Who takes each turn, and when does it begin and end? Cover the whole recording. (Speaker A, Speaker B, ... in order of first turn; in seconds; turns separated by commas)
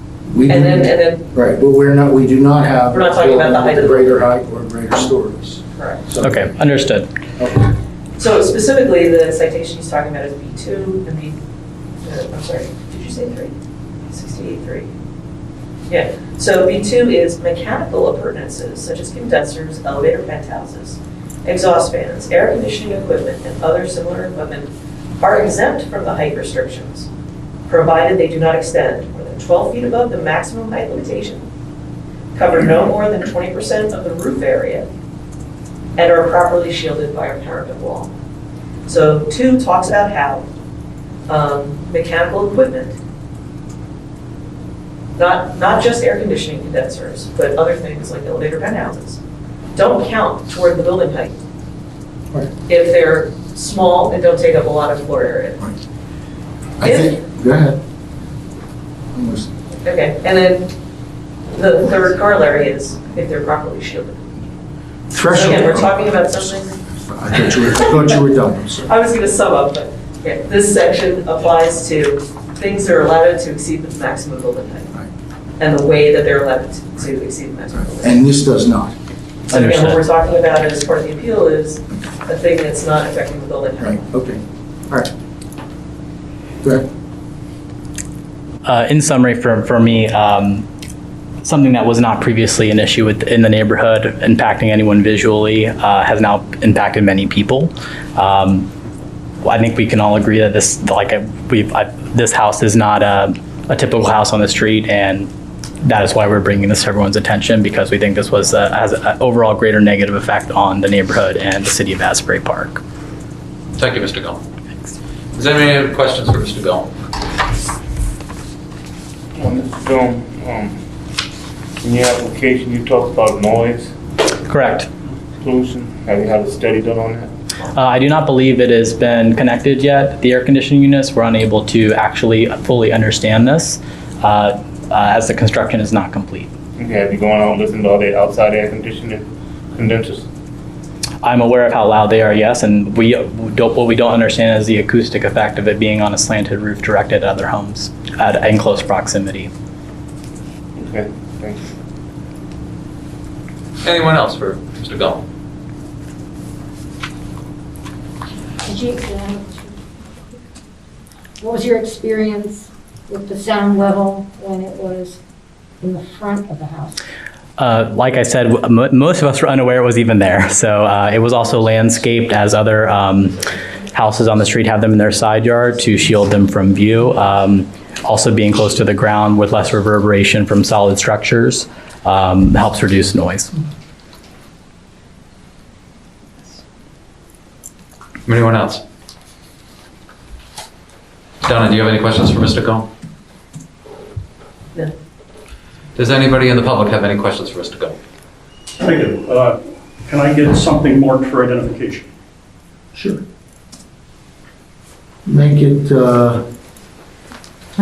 Speaker A: 0.3-6.5, Speaker B: 0.5-1.2, Speaker B: 2.9-4.1, Speaker B: 5.8-6.0, Speaker C: 6.2-7.1, Speaker A: 7.4-7.6, Speaker B: 8.2-11.4, Speaker B: 12.0-13.5, Speaker B: 14.1-14.9, Speaker B: 15.9-27.1, Speaker B: 27.7-31.5, Speaker B: 32.4-34.9, Speaker B: 36.0-38.1, Speaker B: 38.9-40.5, Speaker B: 41.3-43.0, Speaker B: 45.2-49.2, Speaker B: 49.8-51.4, Speaker B: 52.7-55.7, Speaker A: 56.8-57.8, Speaker B: 56.8-57.2, Speaker A: 59.1-59.5, Speaker B: 59.9-60.7, Speaker B: 61.5-64.3, Speaker A: 65.1-68.9, Speaker B: 65.3-66.8, Speaker B: 68.9-74.9, Speaker B: 75.6-78.2, Speaker A: 78.0-78.9, Speaker B: 79.5-84.0, Speaker C: 79.5-80.0, Speaker A: 83.8-85.1, Speaker C: 88.7-90.7, Speaker C: 91.4-98.7, Speaker C: 99.4-105.3, Speaker C: 105.8-112.8, Speaker D: 113.8-114.4, Speaker D: 115.3-116.9, Speaker E: 119.4-120.8, Speaker E: 121.8-123.9, Speaker C: 124.5-124.9, Speaker E: 125.4-127.3, Speaker C: 127.7-136.5, Speaker E: 136.8-140.3, Speaker C: 141.2-149.5, Speaker E: 150.8-151.7, Speaker D: 153.8-155.2, Speaker F: 158.7-159.5, Speaker F: 161.4-165.2, Speaker F: 165.8-167.0, Speaker C: 167.6-173.4, Speaker C: 173.9-183.5, Speaker D: 188.3-188.8, Speaker D: 191.4-192.9, Speaker D: 196.0-198.0, Speaker G: 198.8-202.1, Speaker A: 202.9-203.2, Speaker A: 205.2-206.5